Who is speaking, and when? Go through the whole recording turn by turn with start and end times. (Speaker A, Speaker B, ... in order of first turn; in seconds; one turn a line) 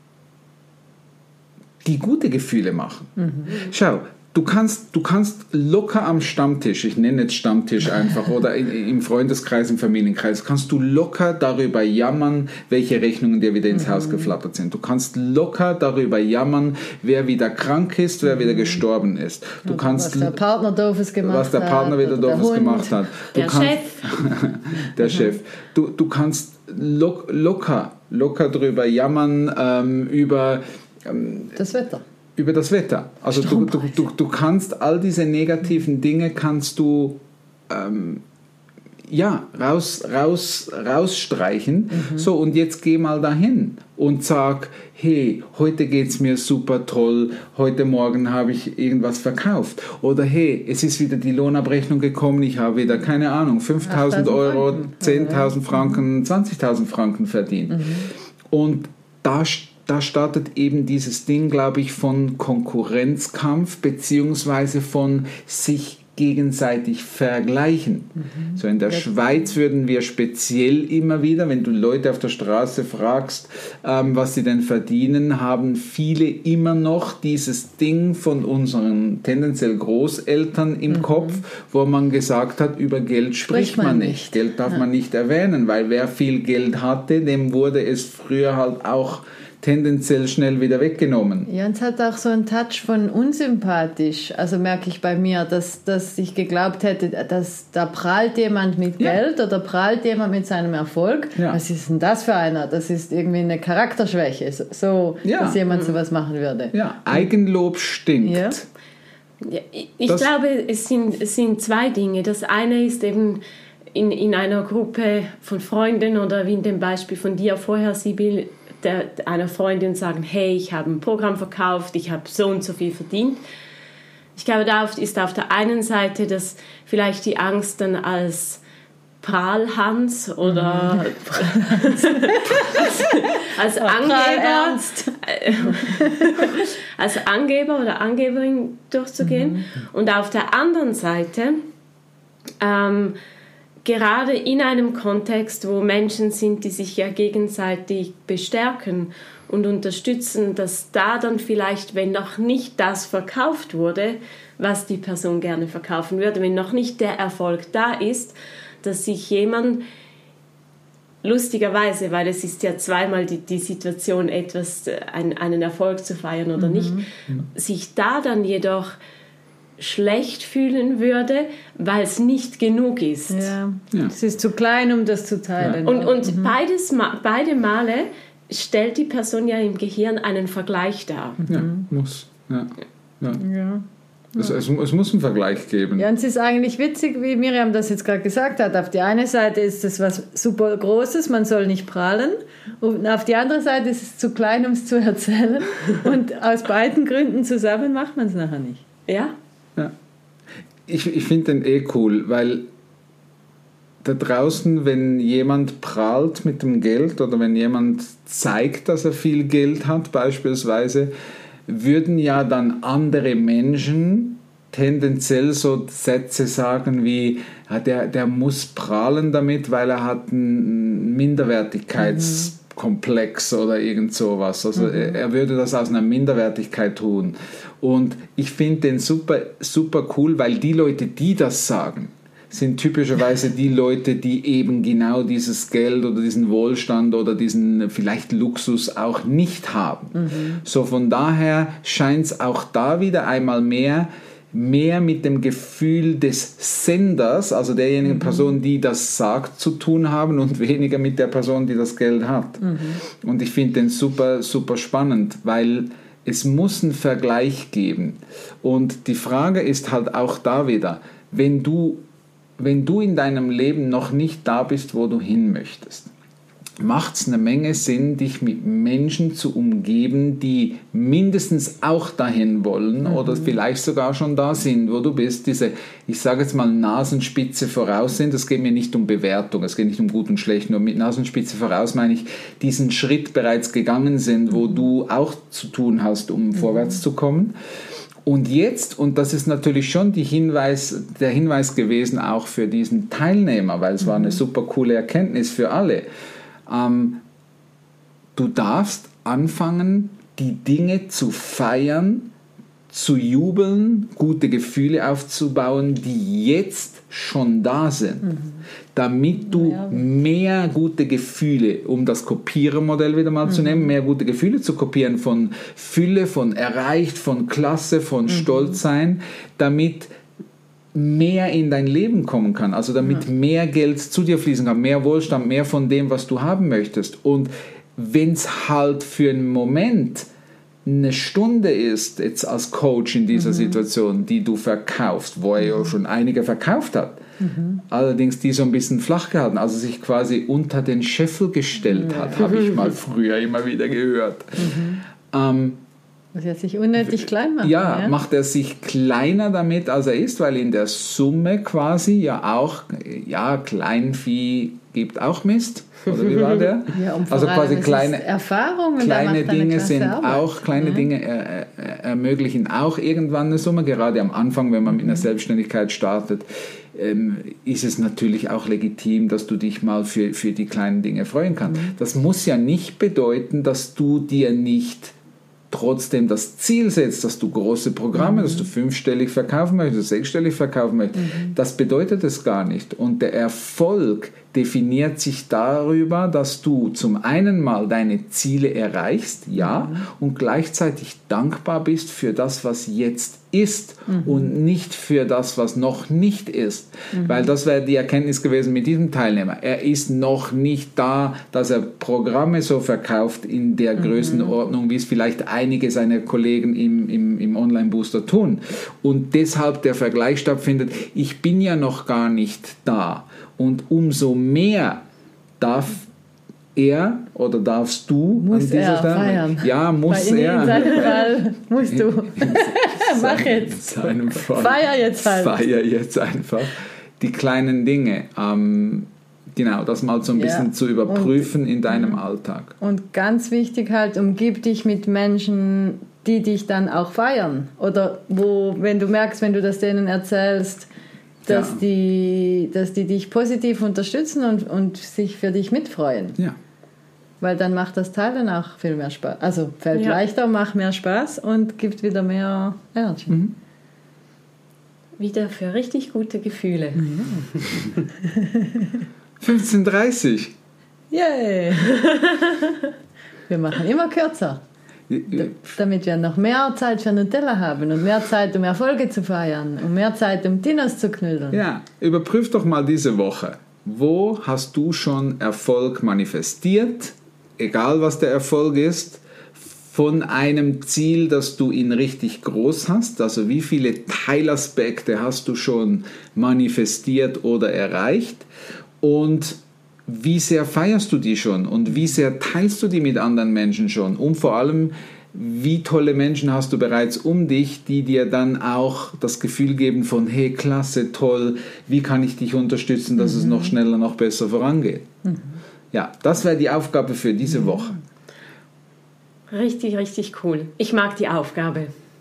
Speaker A: 1.8-20.4
Speaker B: 3.2-3.5
Speaker B: 13.7-14.3
Speaker B: 19.7-23.0
Speaker A: 21.2-31.6
Speaker C: 23.3-23.9
Speaker B: 31.6-32.0
Speaker A: 32.4-38.2
Speaker B: 33.4-34.0
Speaker A: 39.1-91.5
Speaker B: 41.9-42.3
Speaker B: 53.9-55.6
Speaker B: 68.3-69.1
Speaker B: 81.0-81.2
Speaker B: 83.5-84.8
Speaker B: 91.5-107.3
Speaker A: 105.2-105.6
Speaker C: 105.7-106.0
Speaker A: 106.7-108.7
Speaker B: 108.2-108.6
Speaker C: 109.4-113.4
Speaker C: 113.9-123.4
Speaker C: 124.4-128.6
Speaker C: 129.2-141.6
Speaker B: 133.8-136.5
Speaker B: 139.2-139.6
Speaker C: 142.6-143.2
Speaker C: 143.8-159.8
Speaker C: 161.2-167.0
Speaker B: 166.6-167.1
Speaker C: 167.5-168.9
Speaker C: 169.8-173.5
Speaker B: 173.3-176.5
Speaker C: 175.8-181.4
Speaker B: 181.4-181.8
Speaker A: 181.4-183.4
Speaker B: 183.3-183.8
Speaker A: 184.4-186.1
Speaker B: 186.0-198.8
Speaker C: 199.1-199.3
Speaker A: 200.9-202.7
Speaker A: 204.0-211.1
Speaker A: 211.7-262.0
Speaker B: 222.0-222.5
Speaker B: 240.2-240.6
Speaker B: 248.1-248.4
Speaker B: 252.6-252.9
Speaker A: 262.6-266.1
Speaker A: 266.8-287.6
Speaker A: 288.3-296.1
Speaker A: 296.7-297.2
Speaker A: 298.4-302.3
Speaker A: 302.9-308.4
Speaker A: 308.9-320.1
Speaker B: 309.5-310.0
Speaker A: 320.9-330.3
Speaker A: 330.9-337.2
Speaker B: 337.4-337.8
Speaker A: 337.9-345.8
Speaker B: 341.9-342.4
Speaker B: 344.6-345.0
Speaker B: 346.3-348.1
Speaker A: 347.0-358.3
Speaker B: 356.9-361.1
Speaker A: 359.0-375.1
Speaker B: 364.9-365.2
Speaker A: 375.7-415.0
Speaker B: 378.2-378.7
Speaker B: 381.2-381.6
Speaker B: 389.6-390.0
Speaker B: 397.1-397.5
Speaker A: 415.6-416.1
Speaker A: 416.8-432.8
Speaker B: 418.4-425.6
Speaker B: 430.4-432.2
Speaker B: 432.8-440.9
Speaker B: 441.5-446.4
Speaker A: 441.5-441.8
Speaker B: 447.4-453.4
Speaker C: 449.9-450.2
Speaker A: 453.3-453.6
Speaker C: 455.2-457.0
Speaker B: 457.0-458.9
Speaker A: 459.4-460.5
Speaker B: 461.1-462.0
Speaker C: 461.9-462.7
Speaker B: 463.5-464.6
Speaker A: 465.1-465.6
Speaker B: 465.3-471.6
Speaker A: 471.5-488.5
Speaker A: 489.0-505.1
Speaker B: 503.2-503.7
Speaker B: 505.3-505.6
Speaker A: 505.9-508.0
Speaker C: 509.5-511.9